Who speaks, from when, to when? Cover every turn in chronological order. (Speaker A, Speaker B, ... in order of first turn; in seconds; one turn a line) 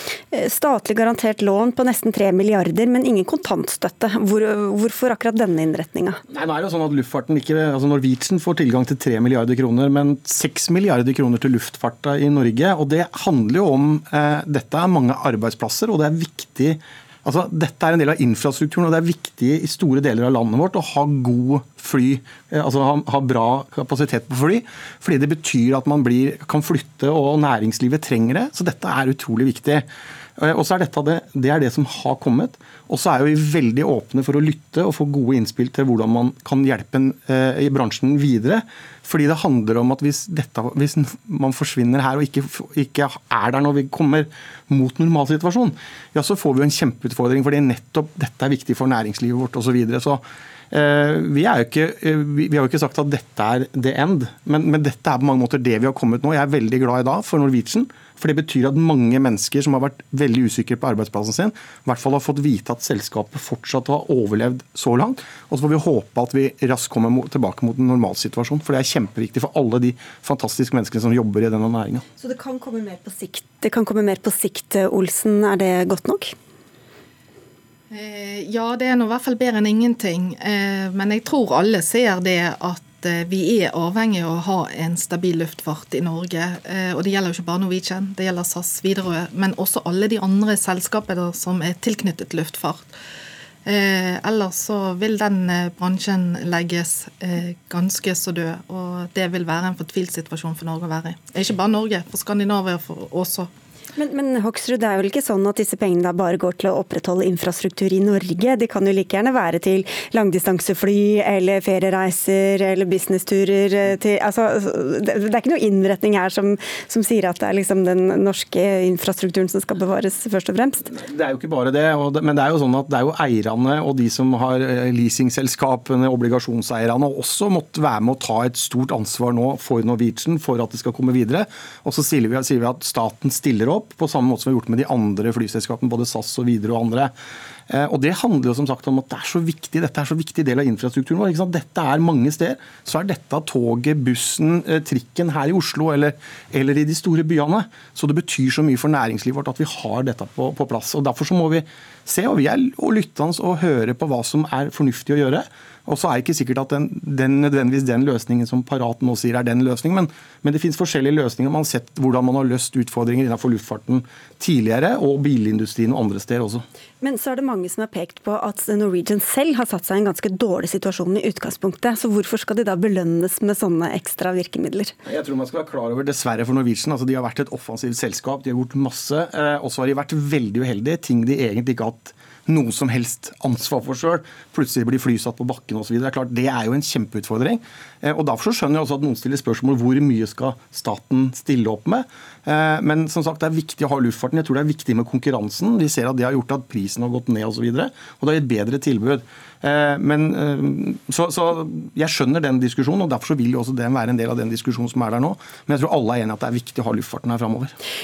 Speaker A: 0.3-6.2
Speaker B: 6.3-29.9
Speaker B: 30.4-72.0
Speaker A: 72.2-76.3
Speaker C: 77.9-92.9
Speaker C: 93.7-103.5
Speaker A: 104.0-120.9
Speaker B: 120.9-137.1
Speaker B: 137.7-166.7
Speaker A: 167.0-174.9
Speaker B: 175.1-207.8